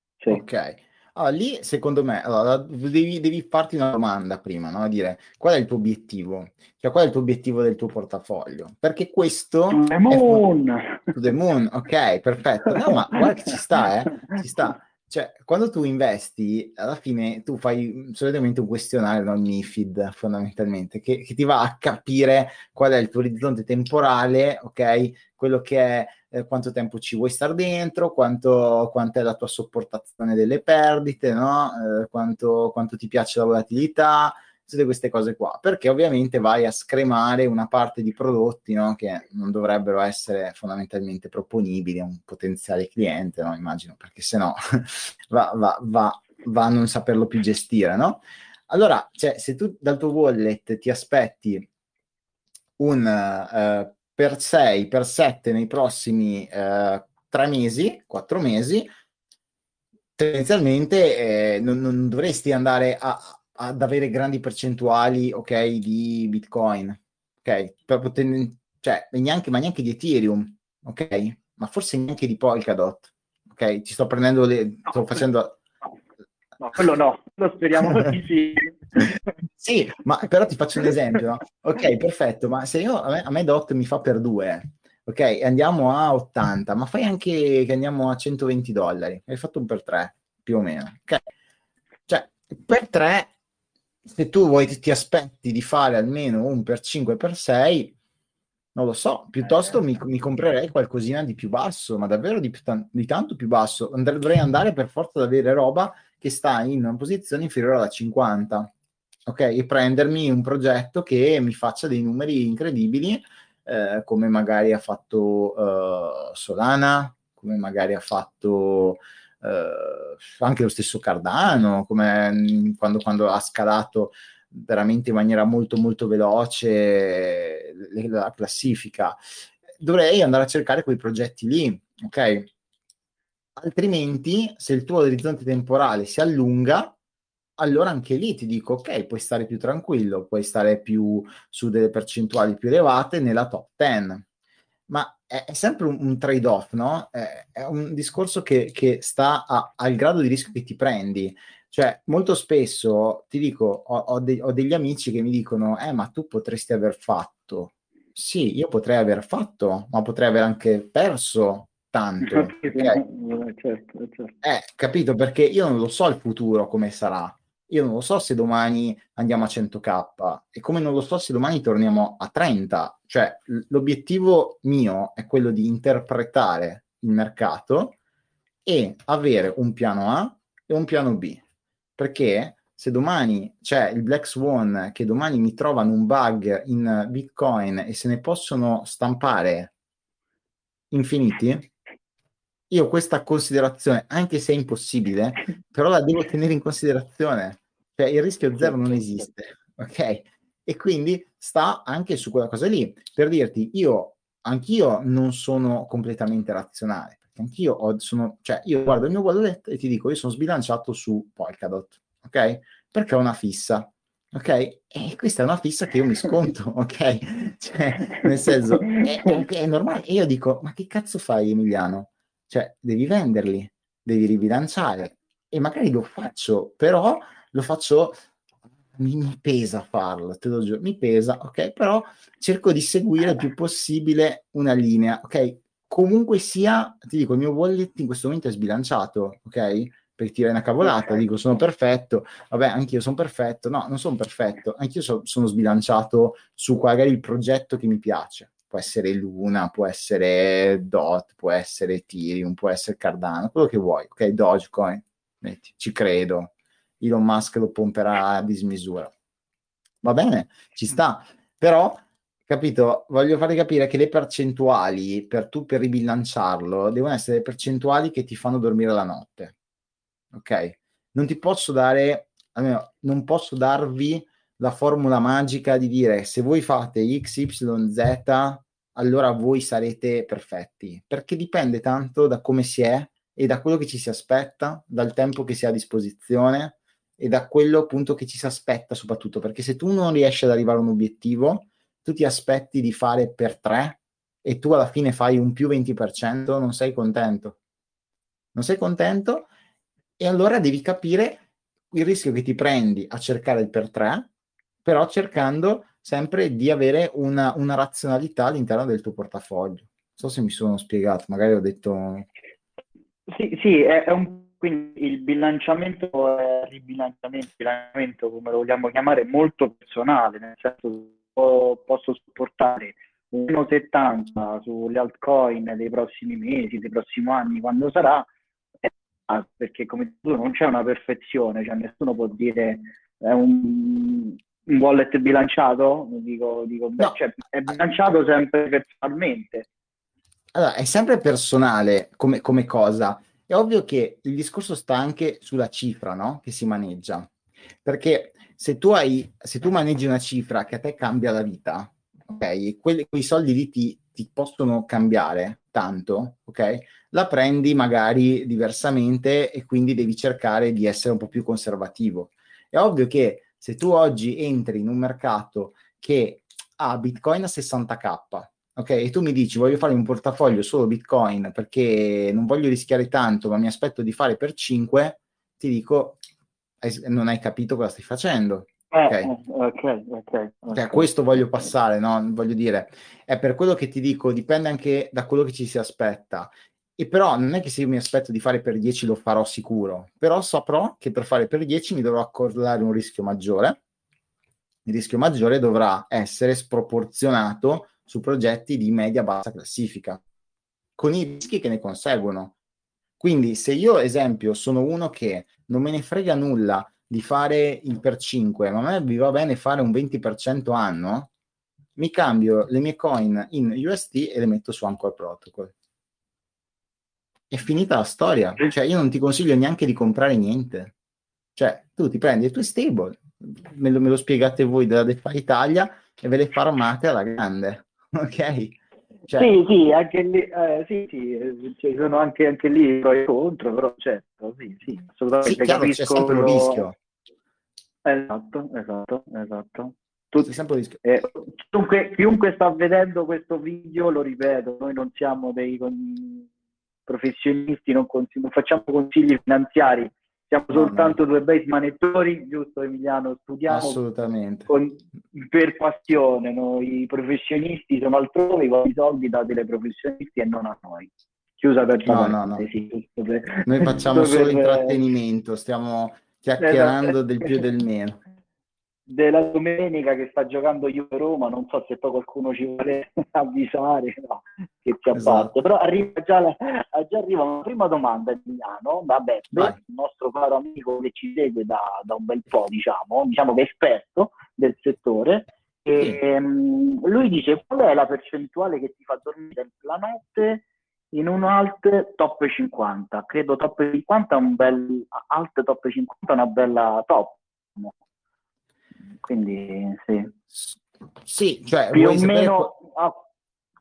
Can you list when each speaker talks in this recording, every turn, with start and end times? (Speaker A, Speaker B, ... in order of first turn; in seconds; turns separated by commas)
Speaker A: 0.3-10.5, Speaker B: 9.7-11.0, Speaker A: 11.1-51.7, Speaker A: 52.8-58.9, Speaker A: 60.2-75.6, Speaker B: 76.6-79.1, Speaker A: 79.6-91.2, Speaker A: 92.1-93.3, Speaker A: 94.0-97.9, Speaker A: 98.8-108.7, Speaker A: 109.3-129.2, Speaker A: 129.8-132.5, Speaker A: 133.6-136.9, Speaker A: 137.6-144.3, Speaker A: 144.9-163.0, Speaker B: 162.2-164.3, Speaker A: 164.4-177.9, Speaker A: 178.7-181.4, Speaker A: 182.0-189.7, Speaker A: 190.9-191.7, Speaker A: 192.7-228.2, Speaker A: 228.9-259.1, Speaker A: 260.0-269.6, Speaker A: 270.3-297.6, Speaker A: 298.6-299.5, Speaker A: 300.2-304.3, Speaker A: 304.9-312.3, Speaker B: 313.3-328.3, Speaker B: 328.8-339.7, Speaker A: 340.5-347.3, Speaker A: 347.8-376.2, Speaker A: 376.8-379.3, Speaker B: 378.9-381.1, Speaker A: 380.7-393.8, Speaker A: 394.9-400.2, Speaker A: 401.0-402.5, Speaker A: 403.2-411.3, Speaker A: 412.0-415.7, Speaker A: 417.5-420.9, Speaker A: 421.6-428.8, Speaker A: 429.3-429.5, Speaker B: 429.3-436.8, Speaker A: 435.4-437.0, Speaker B: 438.1-440.5, Speaker A: 440.4-441.0, Speaker B: 441.0-446.5, Speaker B: 447.1-454.0, Speaker A: 450.7-451.2, Speaker A: 453.7-454.7, Speaker B: 454.7-465.0, Speaker A: 462.1-462.7, Speaker A: 463.6-468.2, Speaker B: 466.6-467.6, Speaker B: 469.1-497.9, Speaker A: 475.1-475.5, Speaker B: 499.2-500.3, Speaker A: 500.5-502.7, Speaker B: 501.9-503.2